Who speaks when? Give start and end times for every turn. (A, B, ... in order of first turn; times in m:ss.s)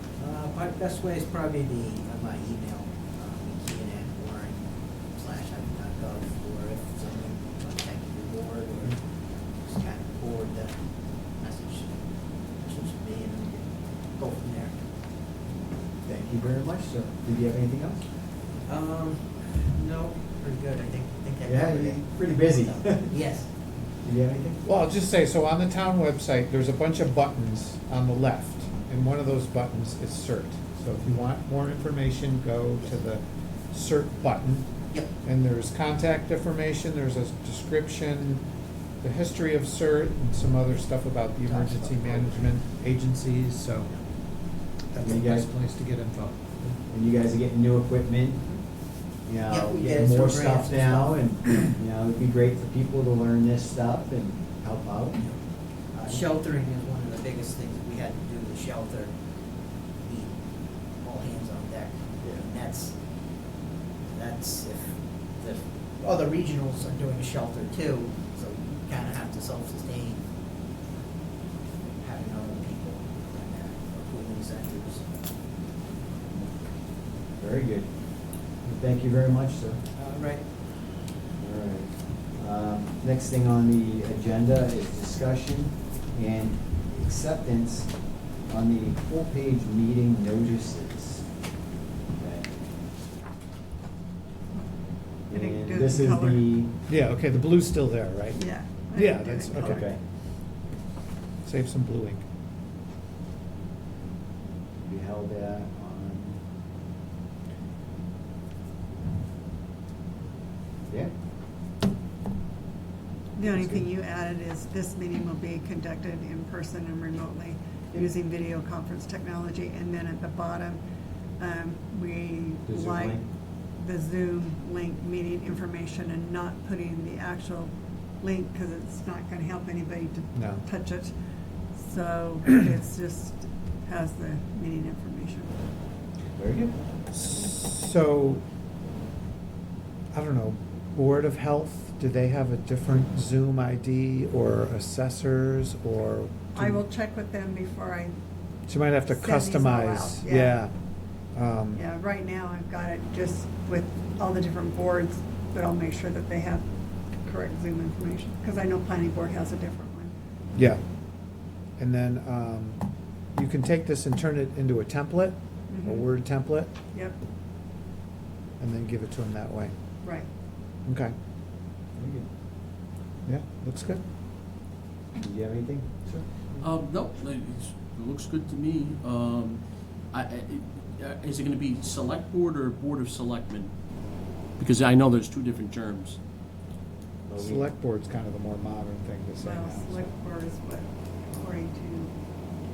0:00.2-0:09.0 A
0:09.6-0:12.0 A
0:12.5-0:14.8 A
0:16.0-0:18.0 B
0:18.6-0:23.5 A
0:21.4-0:23.4 B
0:24.0-0:24.6 B
0:24.6-0:34.7 C
0:35.2-0:38.4 C
0:39.0-0:43.9 C
0:41.4-0:42.5 A
0:44.9-0:46.7 C
0:45.0-0:45.5 B
0:46.8-0:48.4 B
0:49.2-0:55.2 B
0:49.5-0:51.7 A
0:55.9-0:59.1 A
1:00.0-1:00.4 A
1:01.0-1:02.9 A
1:04.1-1:10.2 A
1:11.8-1:15.0 A
1:17.4-1:17.9 B
1:18.6-1:19.8 B
1:19.9-1:20.5 A
1:21.4-1:27.9 B
1:28.4-1:31.2 B
1:32.1-1:32.5 B
1:35.3-1:36.7 B
1:35.3-1:36.5 D
1:36.9-1:38.4 C
1:38.3-1:39.9 D
1:38.9-1:39.8 C
1:39.6-1:40.0 B
1:41.4-1:42.2 C
1:44.8-1:46.4 B
1:53.4-2:00.8 D
1:53.5-1:53.8 B
2:01.4-2:03.2 D
2:02.6-2:03.3 B
2:03.8-2:11.1 D
2:10.3-2:10.6 C
2:11.8-2:15.5 D
2:16.4-2:16.7 B
2:17.1-2:18.4 C
2:20.1-2:26.8 C
2:26.5-2:28.2 D
2:28.7-2:30.7 C
2:29.1-2:30.6 D
2:31.3-2:31.8 C
2:31.7-2:36.6 D
2:37.2-2:40.1 D
2:40.5-2:40.8 C
2:41.8-2:46.7 C
2:45.7-2:46.1 D
2:46.9-2:47.2 D
2:48.6-2:49.7 C
2:50.0-2:50.3 D
2:50.8-2:51.1 C
2:51.9-2:52.3 B
2:53.2-2:54.0 C
2:55.2-2:56.2 B
2:56.6-3:03.7 E
3:04.6-3:06.2 E
3:07.3-3:07.7 B
3:07.4-3:10.1 C
3:09.4-3:12.1 D